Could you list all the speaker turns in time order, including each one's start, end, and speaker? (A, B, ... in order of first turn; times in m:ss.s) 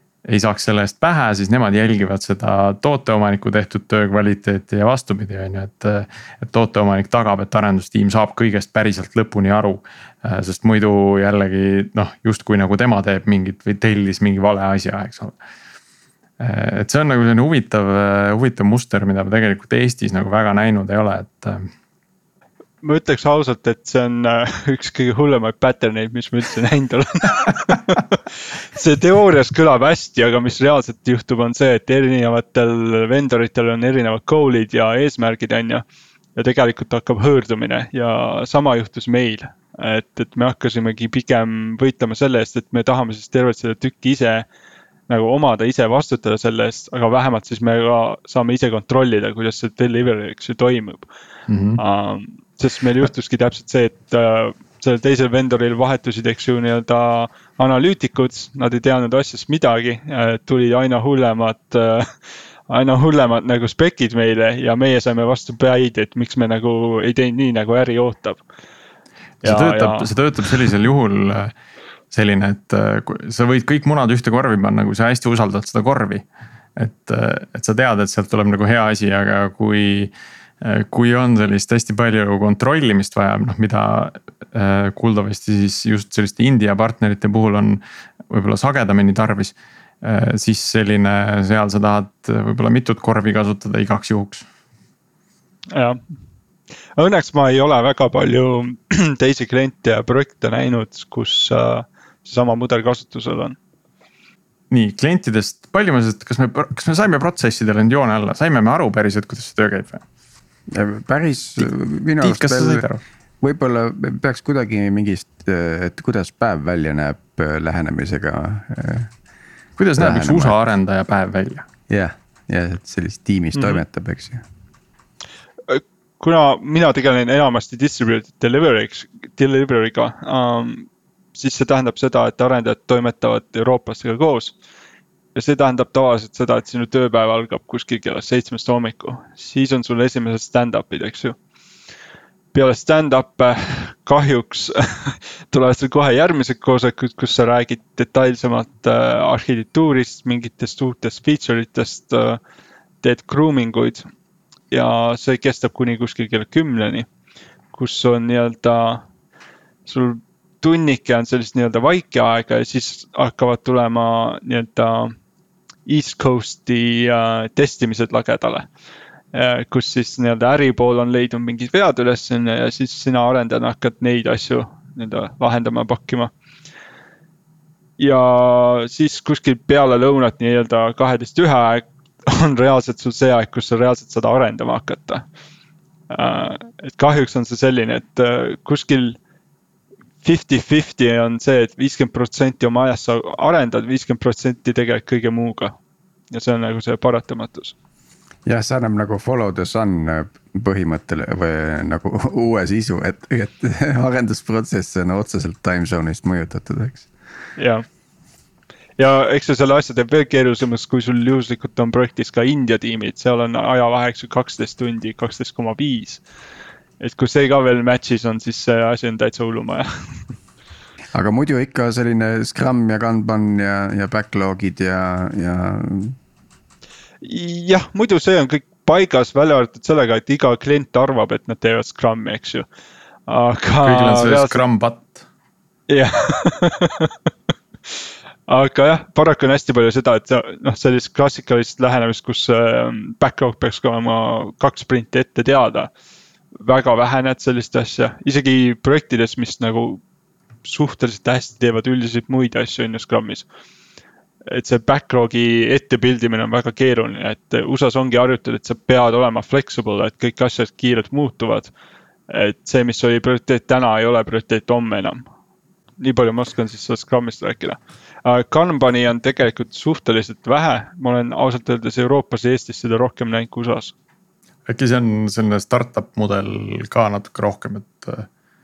0:00.3-0:15.4 A
0:16.4-0:21.7 A
0:22.8-0:28.2 B
0:28.7-0:35.8 B
0:36.4-0:44.4 B
0:45.1-0:51.0 B
0:51.5-0:51.8 A
0:51.8-1:02.1 B
1:02.7-1:08.4 B
1:09.4-1:11.5 A
1:09.4-1:10.1 B
1:12.1-1:16.2 A
1:16.8-1:34.4 A
1:35.7-1:36.0 B
1:37.0-1:43.6 B
1:44.7-1:50.0 A
1:50.7-1:52.9 C
1:52.2-1:53.0 A
1:53.4-1:59.1 C
1:59.8-2:01.6 A
2:00.0-2:00.6 C
2:01.9-2:04.4 C
2:03.5-2:03.8 B
2:05.7-2:14.5 B
2:15.3-2:21.4 B
2:22.5-2:32.4 B
2:33.0-2:34.0 B
2:34.7-2:37.1 B
2:37.7-2:39.0 B
2:39.8-2:45.1 B
2:45.8-2:48.7 B
2:49.3-2:56.3 B
2:58.0-3:05.2 B
3:06.1-3:09.2 B
3:10.2-3:15.7 B
3:16.3-3:17.7 B
3:18.4-3:27.1 C
3:27.6-3:27.8 B
3:29.0-3:36.2 B
3:37.0-3:40.2 B
3:41.1-3:46.2 C
3:47.2-3:52.6 B
3:53.3-3:54.6 B
3:53.8-3:55.2 A
3:55.9-3:57.1 B
3:58.5-4:05.9 B
4:06.6-4:10.0 B
4:10.6-4:13.4 B
4:14.5-4:21.7 B
4:22.3-4:25.2 B
4:26.0-4:33.9 B
4:34.7-4:38.3 A